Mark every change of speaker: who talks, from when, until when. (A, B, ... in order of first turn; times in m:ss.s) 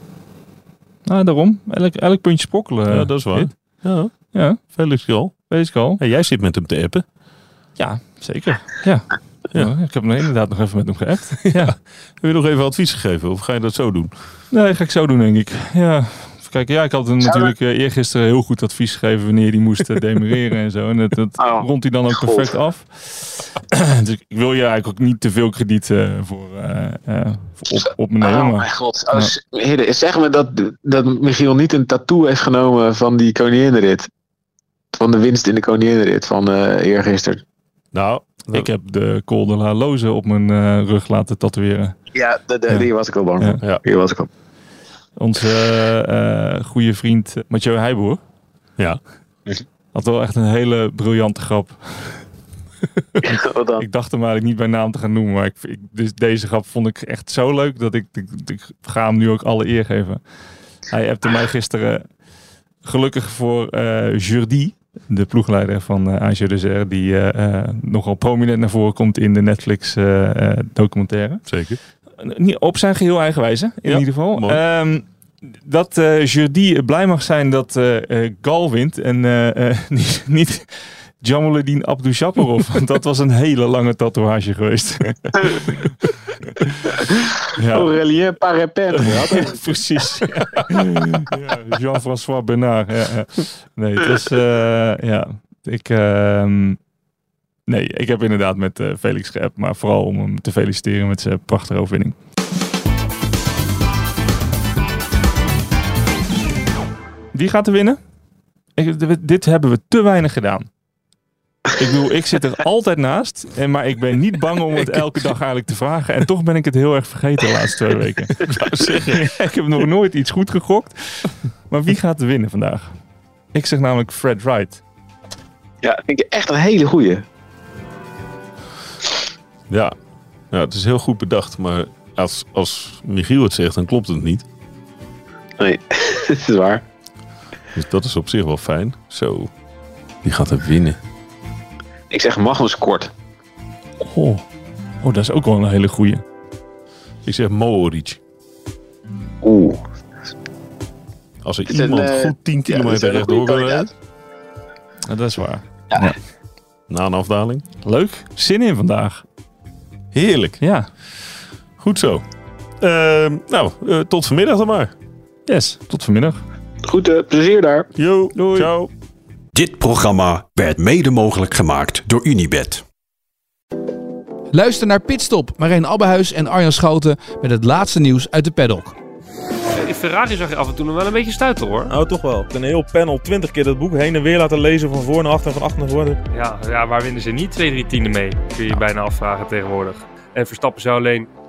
0:01.1-0:03.5 A
0:02.9-0:05.4 B
0:04.3-0:04.6 A
0:05.5-0:06.0 A
0:06.0-0:07.0 B
0:07.8-0:11.7 A
0:11.4-0:14.1 B
0:14.5-0:29.3 A
0:17.2-0:17.5 C
0:21.4-0:22.6 C
0:28.2-0:34.1 C
0:35.0-0:37.4 C
0:37.9-0:38.7 B
0:38.5-0:42.0 A
0:42.1-0:44.3 C
0:45.2-0:48.2 A
0:49.9-0:52.2 A
0:53.2-0:53.8 C
0:53.8-1:00.2 A
1:00.9-1:02.1 A
1:02.8-1:11.4 A
1:11.5-1:11.8 B
1:12.2-1:26.0 A
1:13.9-1:14.6 B
1:27.5-1:27.9 A
1:27.7-1:29.8 C
1:29.1-1:36.8 A
1:37.7-1:42.2 A
1:47.3-1:48.0 A
1:48.8-1:50.7 A
1:51.8-1:58.4 A
1:58.4-1:59.3 B
1:59.1-2:02.9 A
2:03.5-2:04.8 A
2:05.8-2:07.2 C
2:10.5-2:14.4 B
2:15.6-2:16.8 C
2:17.8-2:19.5 B
2:20.2-2:21.0 B
2:22.1-2:23.1 C
2:24.0-2:24.4 A
2:25.0-2:26.2 A
2:27.2-2:28.2 B
2:29.4-2:29.8 C
2:31.4-2:33.9 B
2:31.7-2:33.9 C
2:35.0-2:36.2 A
2:36.9-2:37.6 B
2:37.8-2:39.2 A
2:40.1-2:40.6 B
2:40.6-2:40.9 A
2:41.8-2:42.2 B
2:42.8-2:44.9 B
2:45.5-2:46.4 A
2:46.8-2:47.9 C
2:48.0-2:48.9 B
2:48.3-2:48.7 A
2:49.6-2:52.8 D
2:54.5-2:59.0 E
2:59.8-3:01.9 F
3:01.9-3:06.2 G
3:06.3-3:11.3 F